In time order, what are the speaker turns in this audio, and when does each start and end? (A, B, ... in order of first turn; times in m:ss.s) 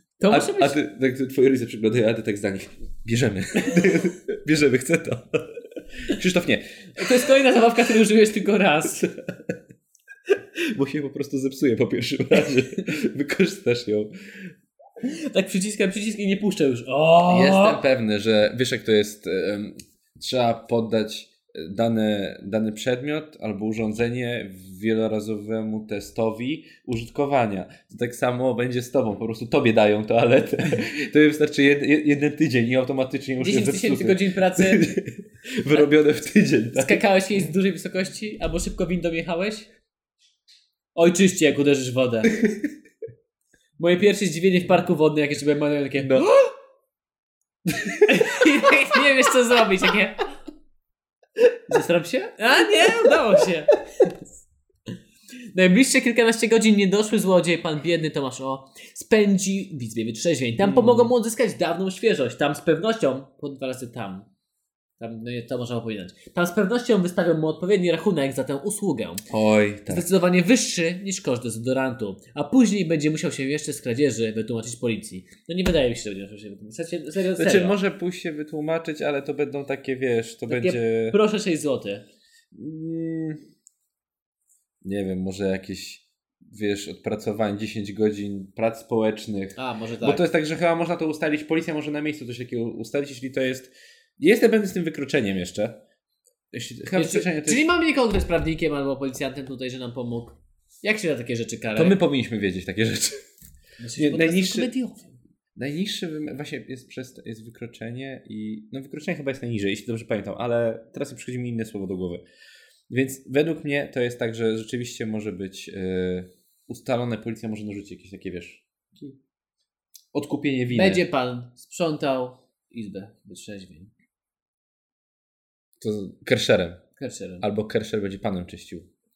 0:00.2-0:00.8 A
0:00.3-0:07.3 B
0:07.0-0:09.1 A
0:09.0-0:09.5 B
0:10.7-0:14.1 B
0:15.0-0:17.8 A
0:17.3-0:37.0 B
0:33.4-0:35.0 A
0:36.7-0:39.7 A
0:40.9-0:42.3 A
0:43.8-0:46.5 A
0:46.0-0:46.3 B
0:47.7-0:48.4 B
0:48.0-0:50.2 A
0:51.7-0:54.1 A
0:55.5-1:04.3 A
1:00.6-1:01.1 B
1:05.0-1:09.2 A
1:09.3-1:10.0 B
1:09.9-1:17.8 A
1:17.4-1:21.2 B
1:20.5-1:22.0 A
1:22.5-1:23.4 B
1:24.8-1:35.8 B
1:29.6-1:30.2 A
1:36.5-1:37.6 B
1:36.9-1:42.0 A
1:41.8-1:43.2 B
1:43.8-1:45.1 A
1:44.0-1:44.7 B
1:45.6-1:52.2 B
1:52.9-1:59.1 B
2:00.1-2:01.0 B
2:00.7-2:03.9 A
2:05.8-2:06.8 B
2:07.0-2:07.4 A
2:07.4-2:08.9 B